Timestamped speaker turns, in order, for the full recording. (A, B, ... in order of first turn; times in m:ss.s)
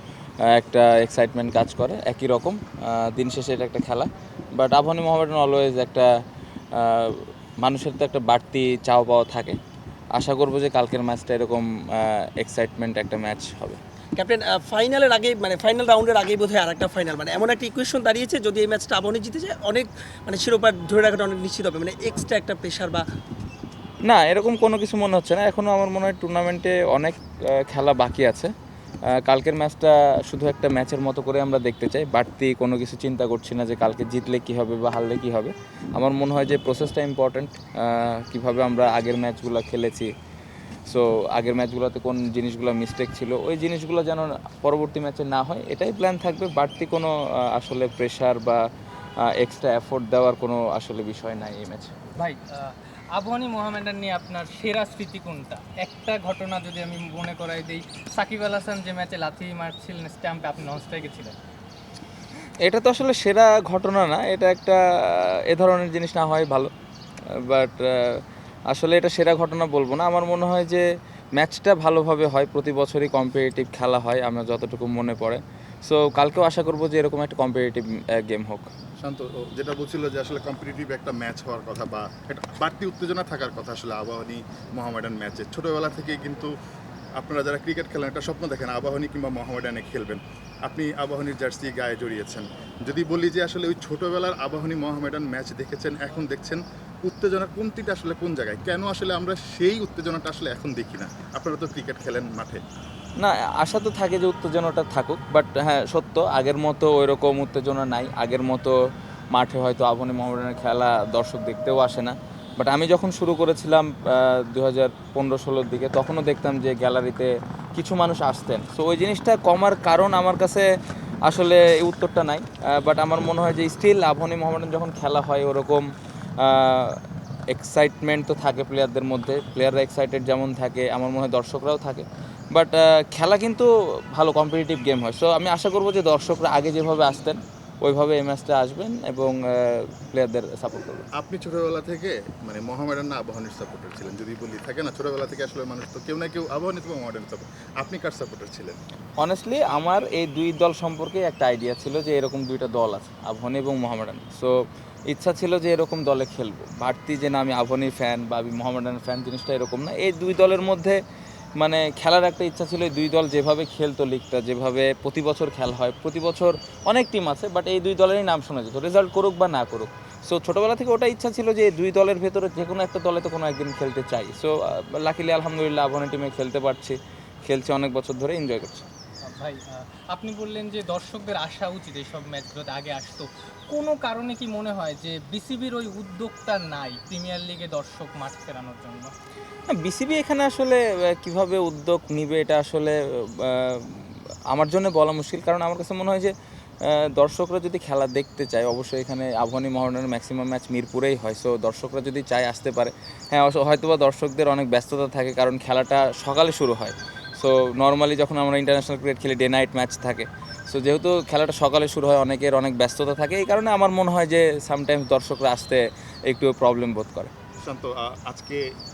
0:00.4-0:06.1 A
0:06.7-0:09.6 A
0:10.1-0:13.8 A
0:14.2-0:23.0 B
0:24.0-0:28.5 A
0:29.1-0:40.1 A
0:40.8-0:48.7 A
0:49.2-0:52.0 A
0:52.1-1:01.3 C
1:02.6-1:06.7 A
1:07.2-1:18.7 A
1:19.0-1:26.6 D
1:27.2-1:42.6 D
1:43.2-1:48.8 A
1:49.3-2:00.7 A
2:01.2-2:05.9 A
2:06.4-2:21.1 A
2:21.1-2:28.8 D
2:29.2-2:41.0 A
2:41.6-2:58.8 A
2:59.2-3:09.1 C
3:09.7-3:37.3 A
3:37.6-3:38.7 D